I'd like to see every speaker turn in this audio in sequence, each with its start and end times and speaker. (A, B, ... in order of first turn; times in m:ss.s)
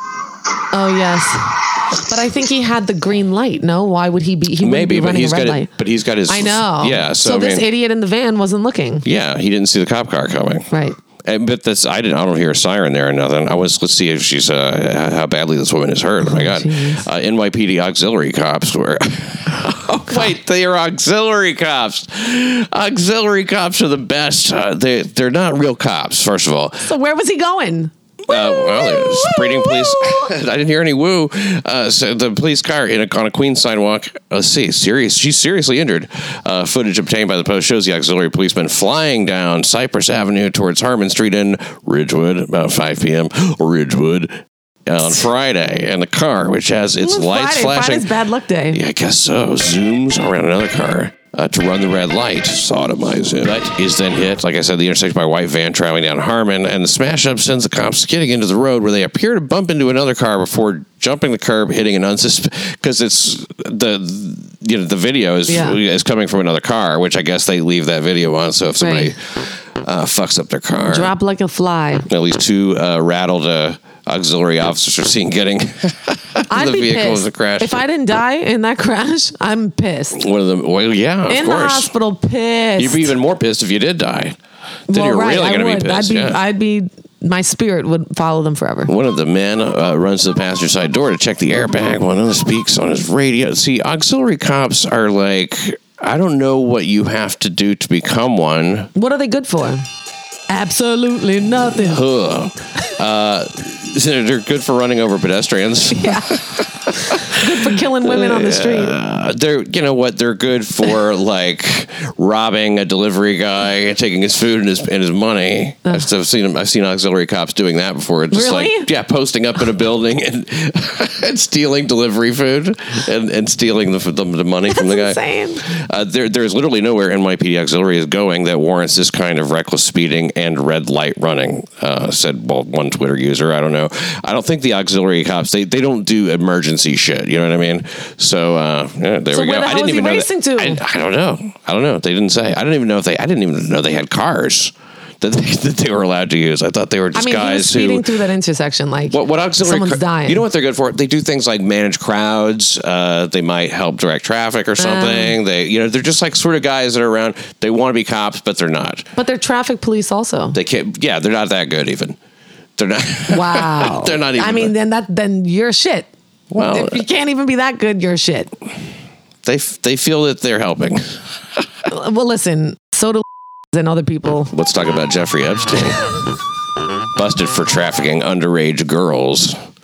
0:00.7-0:05.7 A
0:04.6-0:07.7 B
0:06.3-0:09.0 A
0:09.0-0:10.7 B
0:10.7-0:11.0 A
0:11.2-0:26.9 B
0:16.2-0:17.0 A
0:26.8-0:30.3 A
0:28.3-0:48.1 B
0:47.0-0:48.8 A
0:48.7-1:11.1 B
1:05.5-1:05.8 A
1:08.8-1:09.1 A
1:10.9-1:12.1 A
1:12.1-1:17.8 B
1:16.5-1:20.2 A
1:20.1-1:21.9 B
1:21.3-1:23.1 A
1:22.8-1:24.4 B
1:24.9-1:26.4 B
1:24.9-1:28.9 A
1:28.9-1:38.9 B
1:39.0-1:39.8 A
1:40.5-1:42.0 A
1:41.7-2:28.0 B
1:45.9-1:49.0 A
1:58.3-1:58.9 A
2:04.7-2:05.6 A
2:19.3-2:20.8 A
2:27.1-2:30.4 A
2:29.1-2:39.1 B
2:34.8-2:35.4 A
2:39.2-2:40.6 A
2:40.5-2:42.2 B
2:42.8-2:44.7 B
2:43.3-2:48.5 A
2:46.5-2:47.0 B
2:49.4-2:51.2 B
2:51.9-2:54.5 A
2:54.5-2:56.1 B
2:57.2-2:59.6 B